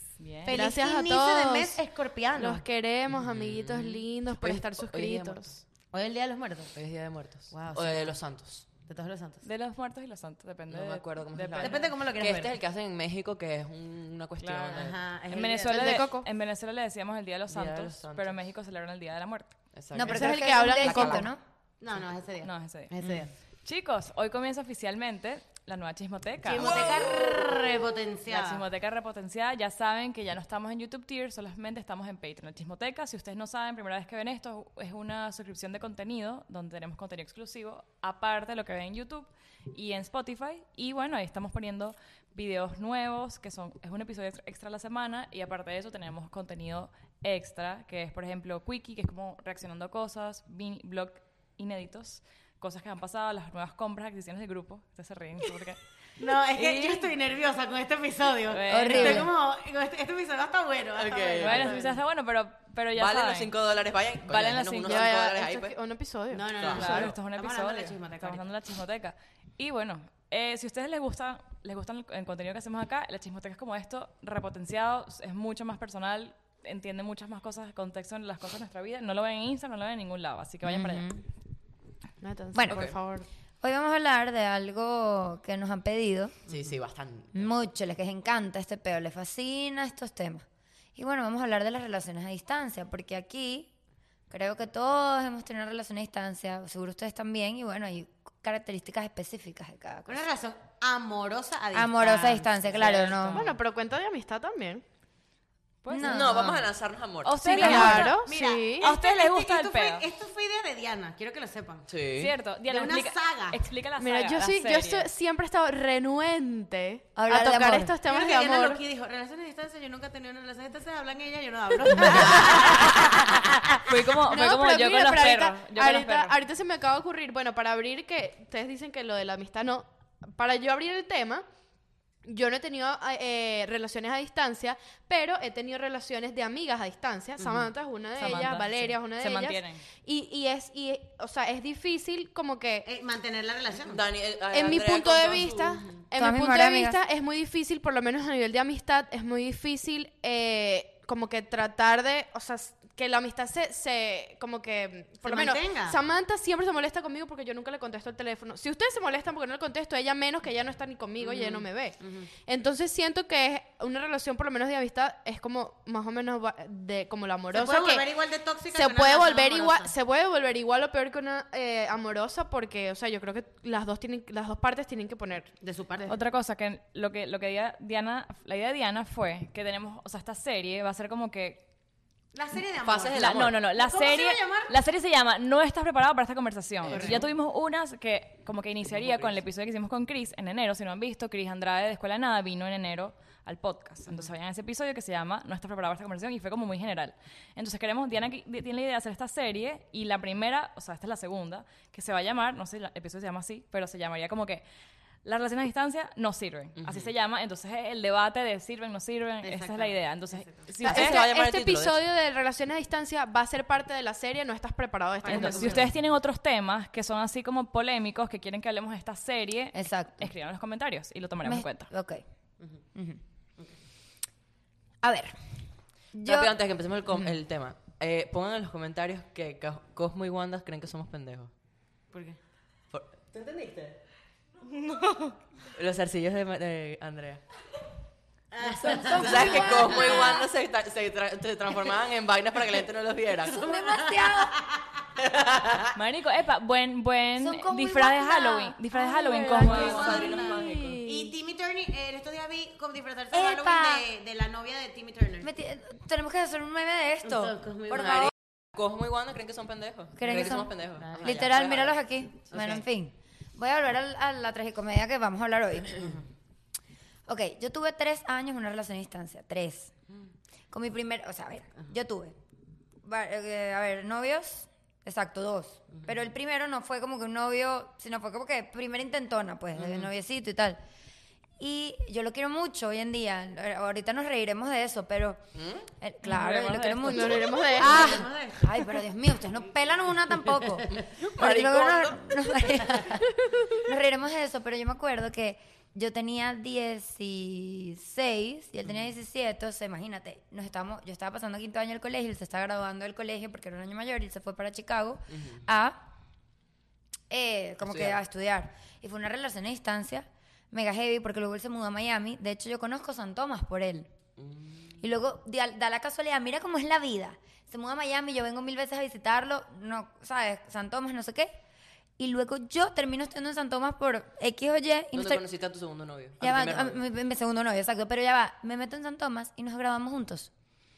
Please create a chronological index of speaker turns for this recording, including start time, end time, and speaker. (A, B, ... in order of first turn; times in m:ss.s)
0:00.2-0:00.6 A
0:00.4-0:02.6 B
0:00.5-0:01.8 C
0:02.4-0:05.6 C
0:03.1-0:05.5 D
0:05.9-0:06.7 B
0:06.7-0:08.6 D
0:07.5-0:08.2 B
0:08.8-0:09.4 B
0:09.4-0:11.9 A
0:10.7-0:15.0 D
0:11.6-0:12.6 B
0:14.4-0:19.5 A
0:14.7-0:16.0 B
0:15.6-0:16.3 C
0:17.5-0:18.5 D
0:19.7-0:21.3 D
0:19.9-0:21.4 E
0:20.0-0:21.3 C
0:21.8-0:23.3 B
0:22.4-0:22.9 A
0:23.6-0:27.0 A
0:26.4-0:28.6 B
0:26.6-0:27.4 D
0:28.3-0:55.8 A
0:56.2-1:01.9 B
0:56.4-0:57.1 A
0:58.5-0:59.3 A
0:58.6-0:59.3 E
1:01.0-1:01.9 D
1:01.4-1:03.5 A
1:03.0-1:05.8 D
1:04.3-1:05.0 A
1:04.8-1:06.6 C
1:06.3-1:08.4 B
1:06.6-1:07.1 D
1:06.7-1:21.1 A
1:20.6-1:21.2 E
1:22.2-1:23.2 C
1:22.5-1:22.8 E
1:22.7-1:23.0 D
1:23.6-1:26.4 E
1:26.5-1:27.5 D
1:27.3-1:30.4 E
1:31.0-1:33.7 E
1:34.3-1:40.2 E
1:40.1-1:43.1 B
1:41.7-1:43.5 E
1:42.8-1:43.5 A
1:43.3-1:44.8 C
1:45.8-1:46.4 A
1:45.9-1:46.6 E
1:46.0-1:47.6 D
1:47.2-1:48.2 A
1:47.4-1:48.9 C
1:47.5-1:48.2 E
1:47.6-1:51.9 B
1:48.8-1:50.0 A
1:51.9-1:52.3 D
1:52.1-1:55.1 A
1:52.7-1:53.6 B
1:54.0-1:58.8 C
1:57.2-1:57.9 E
1:58.0-2:03.9 B
2:02.4-2:02.9 A
2:03.7-2:06.4 A
2:04.2-2:11.4 C
2:12.2-2:22.9 C
2:17.4-2:17.7 B
2:18.2-2:19.8 A
2:22.8-2:24.0 B
2:23.8-2:25.8 D
2:24.5-2:48.1 C
2:26.2-2:27.0 E
2:35.2-2:36.0 B
2:41.2-2:42.3 B
2:47.5-2:49.9 B
2:48.7-2:55.5 C
2:55.6-2:56.1 B
2:56.1-3:01.6 A
3:02.3-3:04.7 B
3:02.8-3:03.6 D
3:03.1-3:24.6 A
3:06.8-3:07.3 D
3:06.9-3:07.2 B
3:08.9-3:09.3 D
3:25.2-3:31.2 A
3:26.8-3:27.1 D
3:29.4-3:30.7 B
3:30.8-3:32.0 D
3:30.8-3:35.9 C
3:35.2-3:35.9 B
3:35.2-3:41.9 A
3:39.7-3:40.3 E
3:41.4-3:42.2 E
3:42.9-3:43.2 E
3:45.0-3:45.4 E
3:46.1-3:46.5 E
3:46.2-3:51.5 D
3:52.1-3:52.4 B
3:52.9-3:53.6 D
3:53.4-3:53.7 B
3:54.8-3:55.3 A
3:55.7-3:57.4 D
3:58.5-4:00.2 B
3:58.6-4:00.4 E
3:59.0-4:03.7 D
4:03.5-4:04.5 E
4:03.6-4:04.8 B
4:05.2-4:05.9 D
4:05.9-4:10.4 A
4:07.4-4:08.8 E
4:09.1-4:11.3 C
4:09.4-4:11.0 D
4:09.7-4:15.5 B
4:13.3-4:14.0 E
4:15.4-4:18.3 E
4:17.2-4:18.3 B
4:18.7-4:22.0 D
4:20.2-4:26.2 E
4:21.0-4:21.4 B
4:22.5-4:22.8 B
4:27.3-4:29.9 E
4:30.7-4:32.3 E
4:33.0-4:40.8 E
4:41.6-4:45.4 E
4:45.5-4:45.9 D
4:46.0-4:53.2 E
4:46.2-4:47.5 A
4:47.1-4:48.2 C
4:47.7-4:49.0 B
4:50.9-4:53.1 D
4:53.8-5:06.0 E
5:05.3-5:05.6 D
5:07.3-5:14.1 E
5:07.8-5:08.2 D
5:14.4-5:15.0 D
5:15.0-5:21.5 E
5:22.2-5:25.4 E
5:25.1-5:27.0 D
5:26.4-5:30.5 E